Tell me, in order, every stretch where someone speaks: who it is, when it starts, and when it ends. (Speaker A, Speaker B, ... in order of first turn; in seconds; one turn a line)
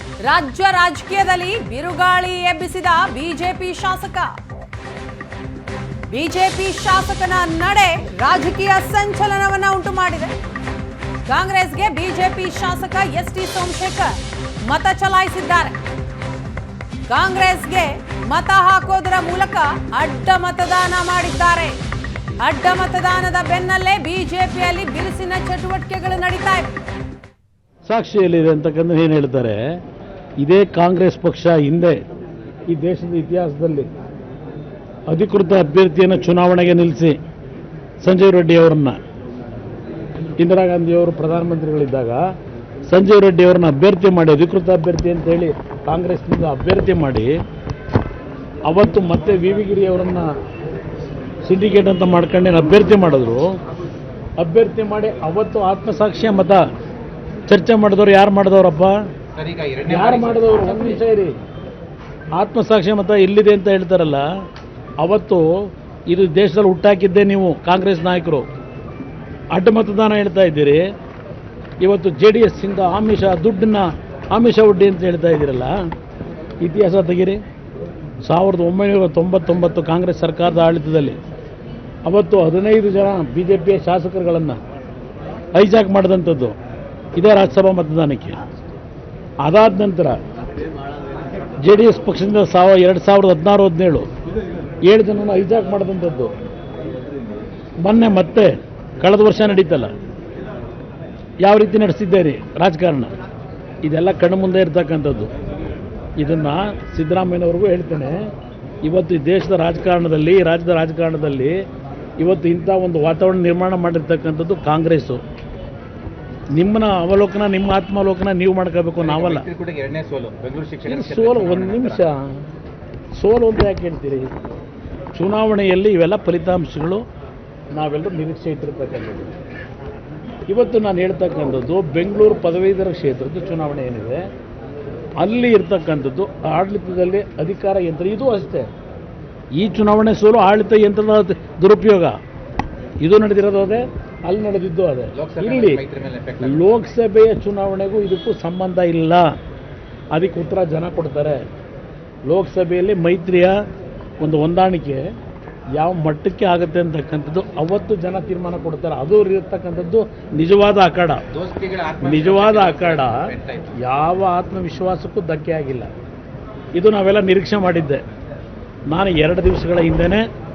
Speaker A: 0.2-4.3
Speaker A: 6.1-10.3
Speaker A: 11.3-15.8
Speaker A: 17.1-21.8
Speaker A: 22.4-26.7
Speaker B: 27.8-29.8
Speaker B: 30.4-32.0
Speaker B: 32.7-33.9
Speaker B: 35.1-37.2
Speaker B: 38.0-39.0
Speaker B: 40.4-42.2
Speaker B: 42.9-47.3
Speaker B: 48.7-50.3
Speaker B: 51.4-53.5
Speaker B: 54.4-56.6
Speaker B: 57.5-59.0
Speaker C: 59.3-61.0
Speaker B: 59.8-61.3
Speaker B: 62.3-64.2
Speaker B: 65.0-65.5
Speaker B: 66.1-68.5
Speaker B: 69.5-70.9
Speaker B: 71.8-75.8
Speaker B: 76.6-77.4
Speaker B: 78.2-81.2
Speaker B: 82.0-84.6
Speaker B: 85.5-86.5
Speaker B: 87.2-88.4
Speaker B: 89.4-90.2
Speaker B: 91.6-94.1
Speaker B: 94.9-96.3
Speaker B: 97.8-99.9
Speaker B: 101.4-103.1
Speaker B: 103.8-105.3
Speaker B: 106.2-108.2
Speaker B: 108.8-111.5
Speaker B: 112.2-115.2
Speaker B: 116.5-119.5
Speaker C: 119.0-122.1
Speaker B: 120.8-122.3
Speaker B: 123.2-124.3
Speaker B: 125.1-127.0
Speaker B: 127.7-129.3
Speaker B: 130.5-134.2
Speaker B: 135.2-138.7
Speaker B: 139.5-142.2
Speaker B: 143.0-145.8
Speaker C: 145.2-146.6
Speaker B: 146.4-149.3
Speaker B: 150.1-151.4
Speaker B: 152.3-153.6
Speaker B: 154.2-155.0
Speaker B: 155.8-161.2
Speaker C: 161.3-163.7
Speaker B: 162.0-163.3
Speaker B: 163.8-165.9
Speaker B: 166.7-168.0
Speaker B: 168.9-170.2